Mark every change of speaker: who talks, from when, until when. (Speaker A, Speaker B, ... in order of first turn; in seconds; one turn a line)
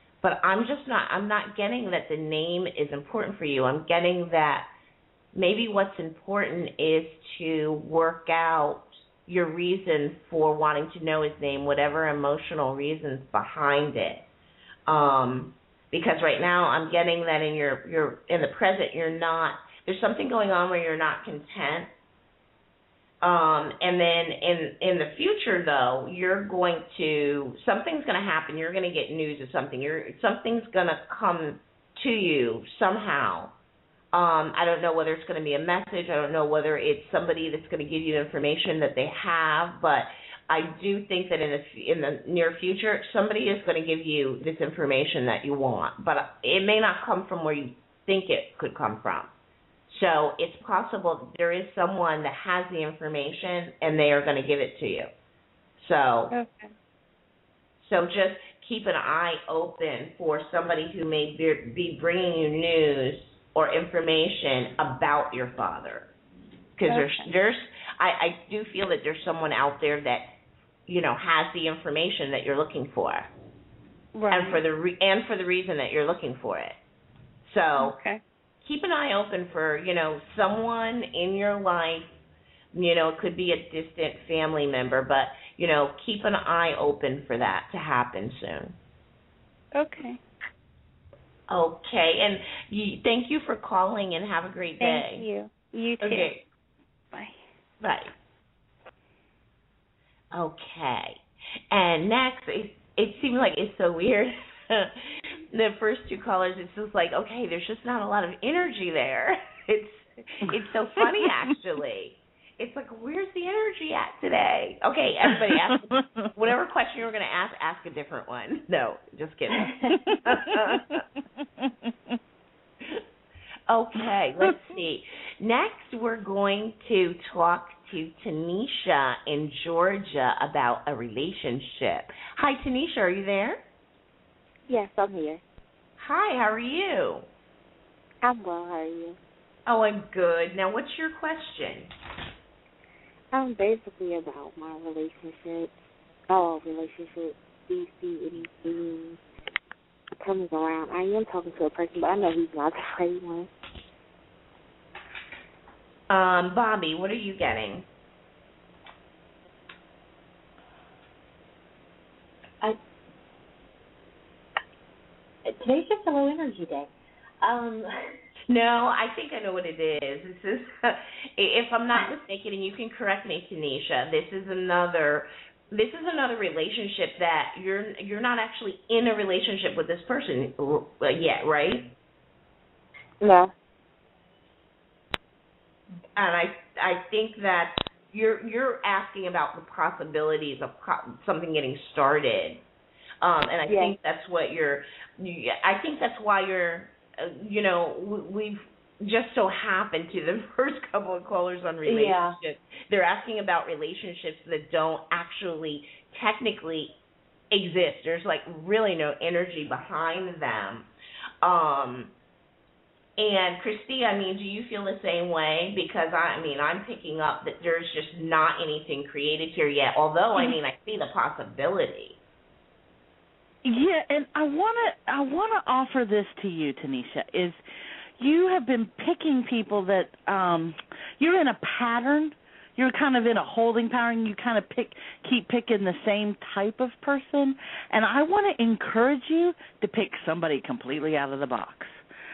Speaker A: 0.2-4.7
Speaker A: 5.3-14.2
Speaker A: 14.9-21.9
Speaker A: 23.2-33.5
Speaker A: 34.1-49.3
Speaker A: 49.9-55.1
Speaker A: 55.8-56.3
Speaker B: 56.3-56.7
Speaker A: 57.8-66.1
Speaker A: 66.8-70.3
Speaker B: 66.9-67.3
Speaker A: 70.9-73.3
Speaker B: 74.2-74.6
Speaker A: 74.3-76.8
Speaker A: 77.4-78.0
Speaker B: 77.8-78.2
Speaker A: 78.6-82.1
Speaker A: 82.7-88.8
Speaker B: 89.8-90.2
Speaker A: 91.5-95.2
Speaker B: 94.8-96.4
Speaker A: 96.0-96.4
Speaker A: 97.8-98.1
Speaker A: 100.3-101.2
Speaker A: 101.7-121.0
Speaker C: 110.5-111.3
Speaker C: 115.3-115.7
Speaker C: 120.1-120.8
Speaker A: 123.7-133.6
Speaker D: 134.7-135.4
Speaker A: 136.0-137.3
Speaker D: 138.2-139.2
Speaker A: 139.7-141.9
Speaker D: 143.3-145.8
Speaker D: 146.3-149.2
Speaker D: 150.2-153.5
Speaker A: 156.1-157.9
Speaker E: 165.5-166.9
Speaker E: 167.4-168.1
Speaker A: 168.5-181.9
Speaker D: 183.2-183.5
Speaker A: 186.2-192.6
Speaker A: 193.2-206.9
Speaker D: 193.7-193.9
Speaker E: 201.9-202.3
Speaker A: 207.5-210.9
Speaker A: 211.4-212.1
Speaker A: 213.2-222.2
Speaker C: 223.6-227.6
Speaker C: 228.2-242.0